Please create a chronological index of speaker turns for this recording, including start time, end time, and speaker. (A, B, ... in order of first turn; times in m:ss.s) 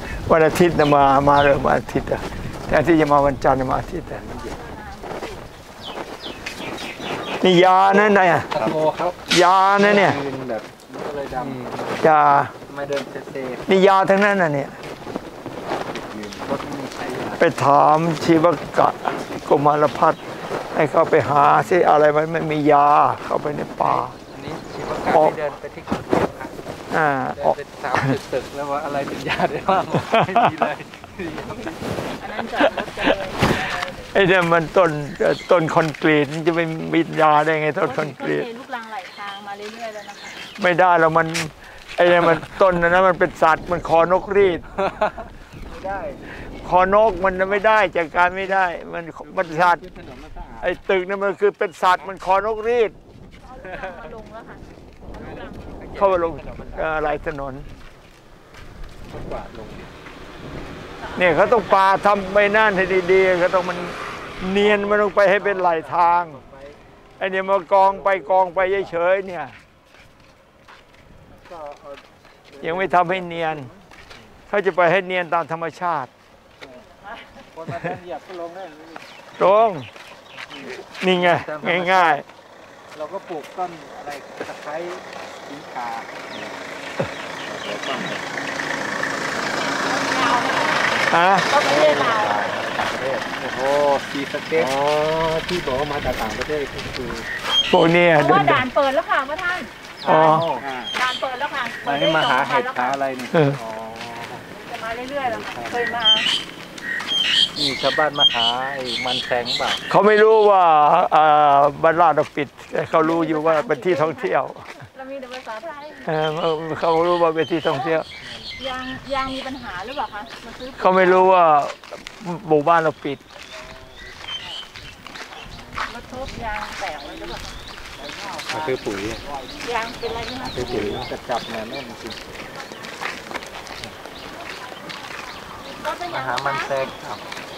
0:00.2-0:04.2 A
0:04.1-0:04.6 B
0:04.3-0:05.5 C
0:07.4-0:08.5 A
0:08.0-0:09.2 D
0:08.5-0:08.8 B
0:09.3-0:10.2 A
0:09.8-0:11.6 D
0:11.4-0:12.0 B
0:12.0-0:12.5 A
0:12.7-0:13.8 D
0:13.7-0:14.8 A
0:15.6-0:16.4 B
0:16.4-0:17.5 D
0:17.4-0:20.2 A
0:20.7-0:24.2 A
0:21.3-0:21.8 B
0:23.8-0:26.6 D
0:25.1-0:25.4 A
0:26.9-0:28.1 A
0:27.4-0:31.9 D
0:30.1-0:30.6 A
0:32.2-0:34.0 C
0:32.6-0:38.5 A
0:37.8-0:40.4 C
0:40.4-0:44.6 A
0:45.0-0:45.2 D
0:45.7-0:46.2 B
0:46.6-0:49.8 A
0:49.3-0:50.8 B
0:50.6-0:53.0 A
0:53.4-0:55.8 C
0:55.2-0:56.9 D
0:55.2-0:56.2 B
0:56.0-0:57.7 A
0:59.1-0:59.9 B
1:01.0-1:01.8 C
1:01.2-1:06.4 A
1:04.6-1:06.8 D
1:07.2-1:09.6 A
1:07.8-1:08.8 B
1:08.0-1:08.5 D
1:11.3-1:12.0 D
1:12.5-1:12.8 D
1:12.6-1:14.2 B
1:12.6-1:13.7 A
1:14.5-1:16.1 A
1:16.9-1:17.4 C
1:17.5-1:19.0 D
1:19.4-1:19.9 A
1:20.6-1:22.2 D
1:20.9-1:22.2 A
1:22.9-1:26.2 D
1:26.3-1:26.6 B
1:27.5-1:28.2 B
1:29.6-1:32.5 C
1:31.1-1:31.5 A
1:31.6-1:33.2 B
1:31.6-1:34.7 D
1:34.6-1:37.3 B
1:37.7-1:38.7 A
1:38.2-1:43.0 C
1:40.0-1:40.7 D
1:40.1-1:40.9 B
1:40.1-1:40.5 A
1:41.8-1:43.6 D
1:43.6-1:44.4 B
1:44.5-1:46.3 C
1:45.2-1:46.0 B
1:47.6-1:49.8 D
1:49.9-1:54.6 A
1:52.9-1:56.1 C
1:56.0-1:58.1 A
1:58.2-1:58.5 D
1:58.6-2:01.3 C
2:00.8-2:03.2 A
2:05.8-2:07.5 C
2:07.1-2:07.4 D
2:08.0-2:12.2 D
2:08.5-2:09.2 B
2:09.6-2:11.0 C
2:10.5-2:11.1 B
2:15.7-2:16.8 C
2:16.1-2:17.3 D